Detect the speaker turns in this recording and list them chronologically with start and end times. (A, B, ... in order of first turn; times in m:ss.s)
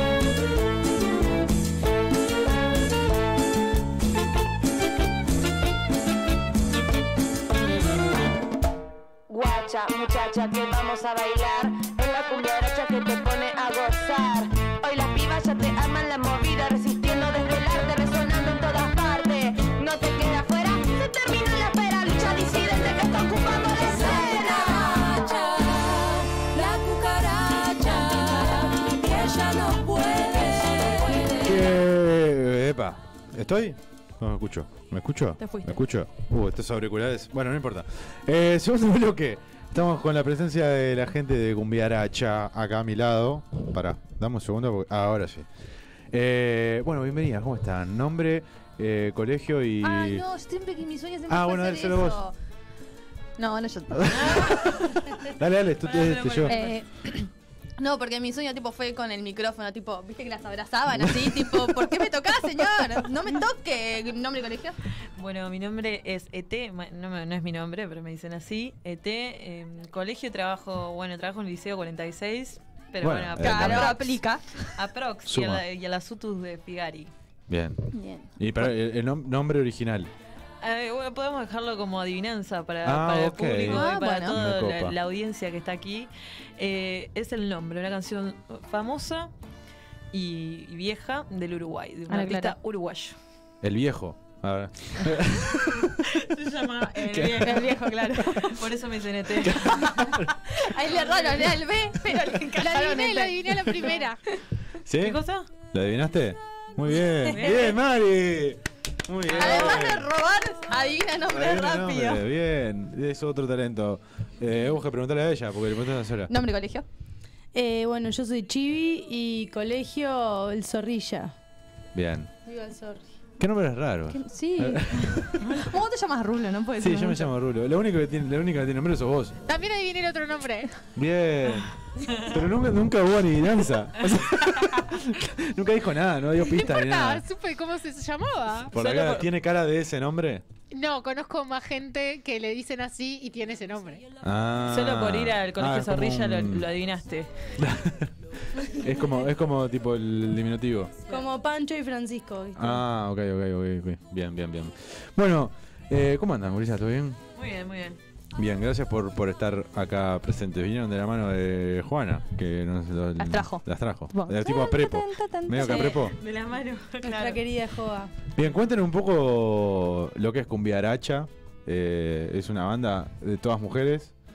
0:09.3-0:24.9 A
0:23.8-0:31.7 B
0:31.4-0:45.5 C
0:35.4-0:35.8 D
0:46.1-0:50.2 C
0:49.8-0:52.3 D
0:51.3-0:52.2 C
0:53.4-0:54.5 D
0:54.0-0:56.6 C
0:54.1-0:55.0 E
0:55.8-0:56.8 E
0:56.4-0:57.2 D
0:57.8-1:04.8 D
1:01.0-1:01.7 C
1:05.2-1:14.2 E
1:13.0-1:14.2 C
1:13.4-1:14.7 D
1:14.8-1:17.1 E
1:15.2-1:15.6 C
1:17.5-1:17.8 C
1:17.9-1:18.3 D
1:18.4-1:20.1 C
1:20.6-1:29.3 E
1:22.8-1:25.0 C
1:23.6-1:24.4 D
1:30.1-1:33.2 E
1:32.1-1:32.6 D
1:33.6-1:35.8 C
1:36.0-1:37.9 E
1:37.0-1:37.7 C
1:37.4-1:38.6 D
1:38.4-1:40.2 E
1:39.4-1:40.3 C
1:39.5-1:44.0 D
1:40.8-1:41.5 E
1:42.6-1:44.2 F
1:44.8-1:50.1 C
1:45.0-1:45.5 E
1:47.3-1:47.8 E
1:49.3-1:52.2 D
1:49.4-1:50.0 E
1:51.2-1:56.3 C
1:56.3-1:56.8 D
1:57.5-2:01.3 G
2:01.9-2:02.3 C
2:02.4-2:03.0 G
2:03.4-2:05.4 C
2:04.1-2:07.3 D
2:06.8-2:09.3 C
2:09.4-2:10.7 F
2:11.0-2:17.2 C
2:12.0-2:12.4 E
2:16.5-2:18.7 F
2:18.7-2:19.3 E
2:18.7-2:20.4 C
2:20.7-2:24.0 F
2:24.2-2:26.7 C
2:24.6-2:27.3 E
2:27.6-2:31.0 C
2:31.1-2:32.8 G
2:32.6-2:37.2 C
2:37.3-2:38.0 E
2:38.3-2:46.2 C
2:43.2-2:46.0 D
2:45.6-2:47.6 E
2:47.0-2:48.1 G
2:48.3-2:54.1 C